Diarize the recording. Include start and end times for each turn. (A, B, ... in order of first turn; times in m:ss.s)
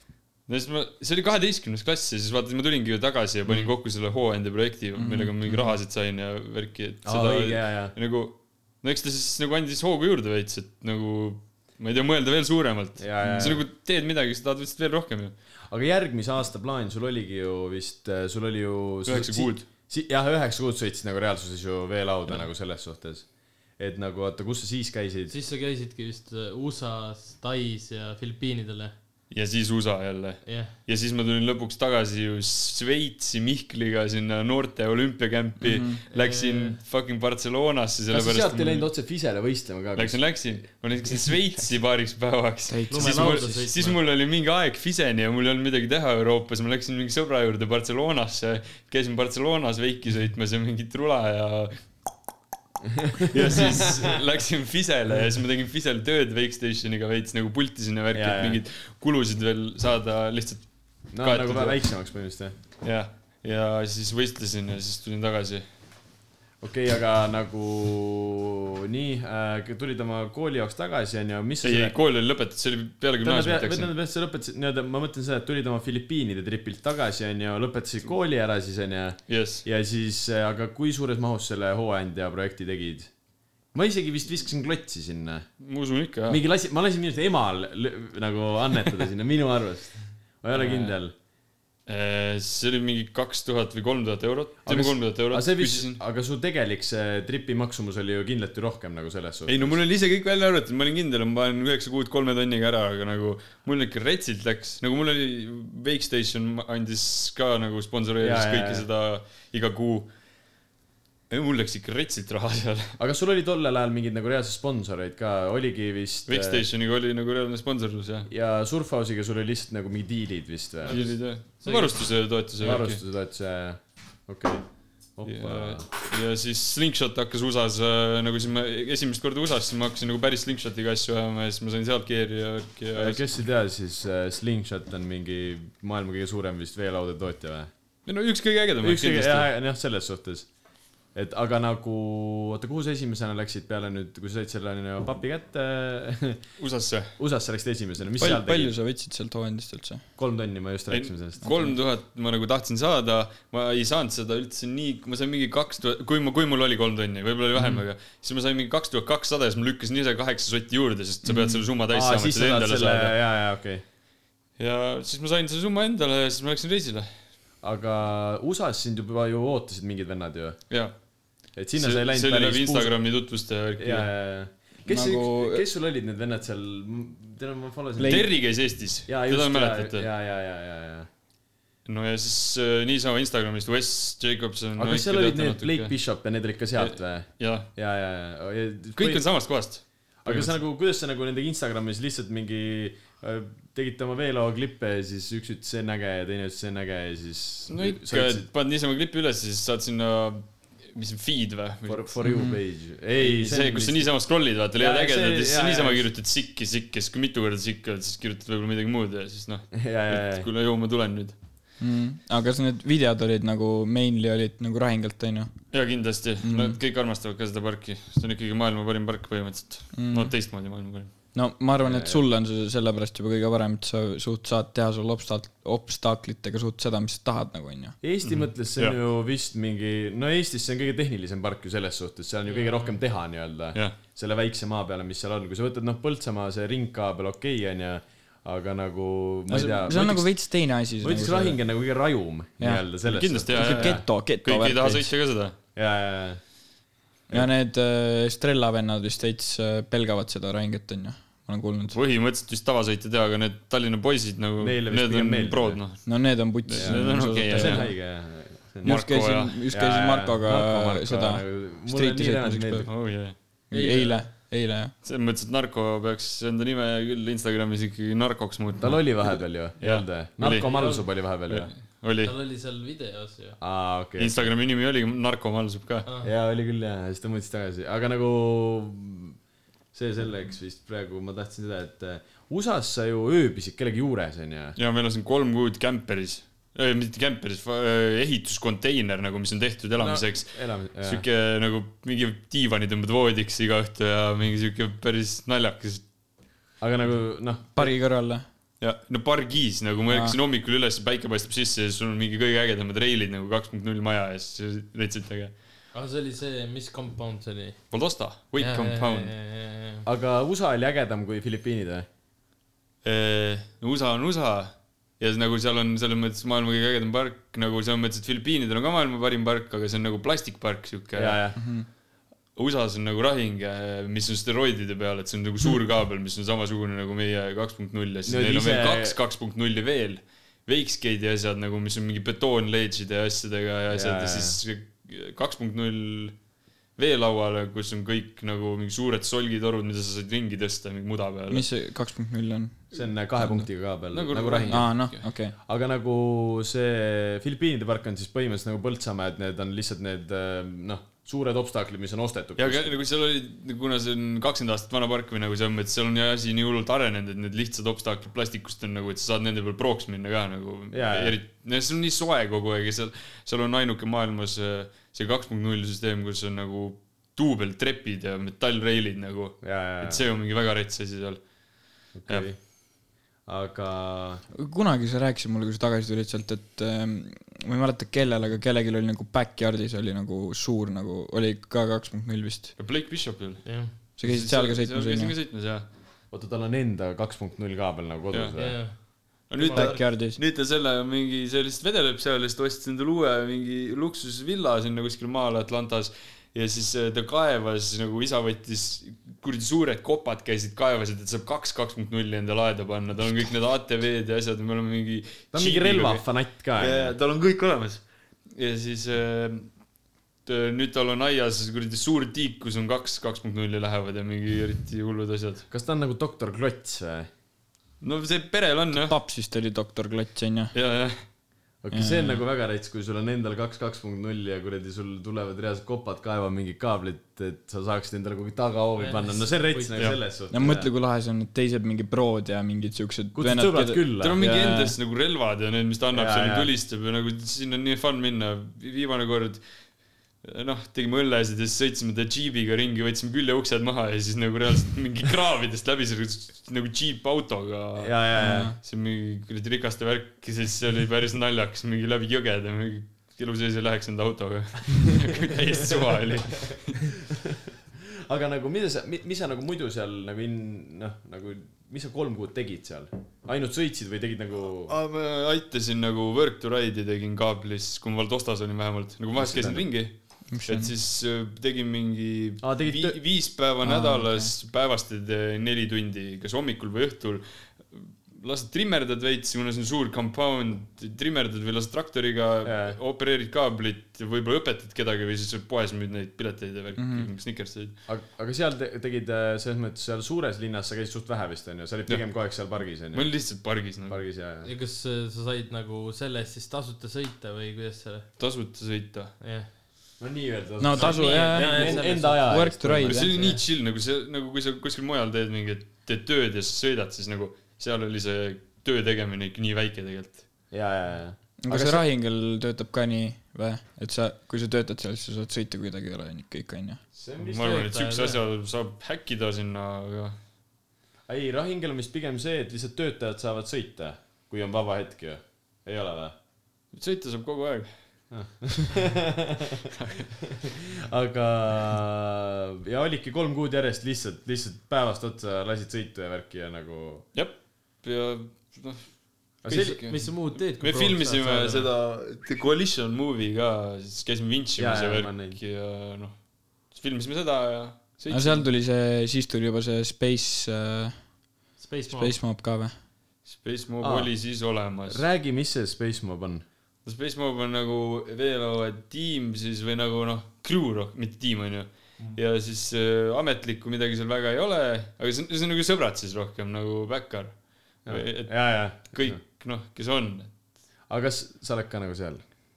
0:00.5-0:15.3 A
0:05.0-0:05.8 B
0:07.0-0:07.9 C
0:13.0-0:13.6 C
0:13.2-0:13.5 B
0:15.7-0:23.3 C
0:19.1-0:19.7 A
0:23.8-0:25.4 C
0:25.3-0:28.9 D
0:29.3-0:38.9 A
0:30.5-0:30.7 D
0:35.6-0:36.0 B
0:36.1-0:36.8 D
0:38.1-0:40.4 C
0:40.0-0:51.8 A
0:42.7-0:43.7 B
0:42.9-0:44.0 D
0:53.0-0:53.4 C
0:53.3-1:01.8 A
0:58.1-0:58.6 C
1:01.1-1:02.6 C
1:02.8-1:05.6 A
1:06.6-1:12.0 C
1:11.6-1:13.9 A
1:13.2-1:23.1 C
1:19.3-1:19.6 A
1:23.7-1:25.5 C
1:25.6-1:26.4 A
1:26.3-1:31.1 C
1:30.5-1:30.9 A
1:31.9-1:36.0 A
1:34.6-1:39.8 C
1:39.5-1:50.1 A
1:48.2-1:48.9 C
1:51.3-1:53.0 A
1:53.0-1:56.6 C
1:56.3-1:58.3 A
1:58.3-2:01.0 C
2:00.9-2:01.9 D
2:00.9-2:03.0 A
2:02.6-2:05.9 C
2:05.3-2:13.2 A
2:12.9-2:17.7 C
2:18.1-2:19.5 A
2:18.8-2:20.5 C
2:21.1-2:26.4 C
2:26.6-2:27.1 A
2:27.2-2:28.7 C
2:28.2-2:30.0 B
2:30.2-2:31.4 C
2:30.9-2:43.1 A
2:31.4-2:31.7 B
2:37.6-2:37.8 B
2:41.2-2:41.6 B
2:41.9-2:43.8 C
2:44.6-2:47.1 A
2:47.6-2:50.6 C
2:51.6-2:53.0 C
2:51.8-2:54.1 A
2:53.8-2:58.4 C
2:54.9-2:55.6 B
2:58.0-2:58.3 B
2:58.0-3:00.1 A
2:59.1-3:01.1 C
3:01.9-3:06.0 A
3:04.8-3:09.3 C
3:06.8-3:07.7 A
3:09.0-3:10.6 A
3:10.2-3:18.5 C
3:17.7-3:22.2 A
3:21.9-3:24.1 C
3:22.2-3:22.6 B
3:23.2-3:31.4 A
3:24.8-3:26.1 C
3:29.7-3:30.5 C
3:31.8-3:35.7 B
3:35.7-3:41.1 A
3:36.4-3:36.8 B
3:40.0-3:40.3 B
3:41.4-3:48.0 B
3:41.8-3:42.2 C
3:48.0-4:00.3 C
3:48.2-3:49.0 A
3:52.5-3:53.0 D
3:59.5-4:01.6 B
4:01.0-4:04.0 C
4:03.1-4:05.6 A
4:03.5-4:05.1 B
4:05.8-4:06.4 C
4:07.3-4:12.0 B
4:11.9-4:17.9 A
4:14.6-4:15.8 C
4:16.1-4:17.9 B
4:16.8-4:18.9 C
4:18.8-4:23.0 B
4:18.8-4:19.6 A
4:19.7-4:22.9 C
4:22.9-4:23.4 A
4:23.7-4:24.9 B
4:23.7-4:24.3 D
4:25.0-4:32.3 A
4:28.8-4:31.7 C
4:30.5-4:31.1 D
4:32.2-4:33.6 D
4:33.6-4:34.5 C
4:34.2-4:36.1 A
4:36.2-4:39.4 C
4:39.9-4:44.8 C
4:44.8-4:56.0 A
4:50.0-4:51.2 C
4:56.8-4:57.9 C
4:57.8-4:58.4 B
4:58.8-5:05.5 A
5:00.1-5:00.4 B
5:05.9-5:07.8 D
5:07.9-5:09.3 A
5:08.6-5:10.1 D
5:10.0-5:12.1 C
5:13.0-5:21.4 A
5:21.1-5:21.6 C
5:21.6-5:21.9 B
5:22.6-5:36.4 A
5:28.3-5:29.2 C
5:33.9-5:34.6 C
5:37.0-5:41.7 A
5:41.5-5:43.6 B
5:42.9-5:44.9 C
5:44.1-5:45.3 A
5:44.7-5:45.6 B
5:45.7-5:52.9 C
5:52.6-6:12.5 A
6:00.9-6:01.4 C
6:09.6-6:10.2 C
6:12.2-6:12.7 C
6:13.4-6:14.4 C
6:14.5-6:22.8 B
6:22.8-6:25.9 A
6:23.6-6:23.9 D
6:24.2-6:25.3 B
6:26.3-6:28.8 C
6:28.3-6:49.7 A
6:28.6-6:30.0 D
6:29.7-6:30.4 B
6:45.5-6:47.2 C
6:50.4-6:55.7 A
6:55.7-6:57.3 C
6:58.0-6:59.1 A
6:58.9-7:00.7 B
7:00.7-7:01.2 A
7:01.8-7:10.9 C
7:01.9-7:02.4 B
7:09.0-7:09.9 D
7:10.5-7:15.0 B
7:13.4-7:14.4 C
7:14.2-7:19.6 A
7:16.1-7:16.7 C
7:20.4-7:37.1 A
7:28.0-7:28.7 C
7:28.4-7:28.8 B
7:38.3-7:44.9 C
7:44.9-8:08.0 A
7:49.4-7:49.9 C
7:50.5-7:50.9 B
7:52.6-7:53.2 C
7:53.8-7:54.5 B
8:02.6-8:03.0 C
8:07.0-8:07.3 B
8:08.1-8:13.3 C
8:13.1-8:14.2 A
8:14.1-8:14.7 C
8:14.6-8:18.3 D
8:18.4-8:19.3 A
8:19.4-8:19.7 D
8:20.2-8:23.3 C
8:20.8-8:23.3 B
8:21.0-8:22.6 D
8:23.0-8:30.5 A
8:23.3-8:23.6 D
8:30.7-8:32.0 C
8:31.6-8:37.0 B
8:37.1-8:37.8 C
8:37.4-8:40.4 A
8:37.6-8:38.4 D
8:41.3-8:46.4 C
8:46.9-8:48.0 A
8:48.3-8:49.6 C
8:49.9-8:50.4 A
8:50.6-8:57.3 C
8:57.3-8:59.2 A
8:59.6-9:00.3 C
8:59.7-9:01.9 D
8:59.8-9:08.7 A
9:04.8-9:05.6 C
9:08.3-9:11.3 B
9:11.8-9:12.4 D
9:12.1-9:12.9 B
9:13.5-9:15.2 A
9:14.0-9:14.3 C
9:15.1-9:16.6 C
9:17.0-9:30.5 A
9:28.1-9:29.4 C
9:31.1-9:32.4 C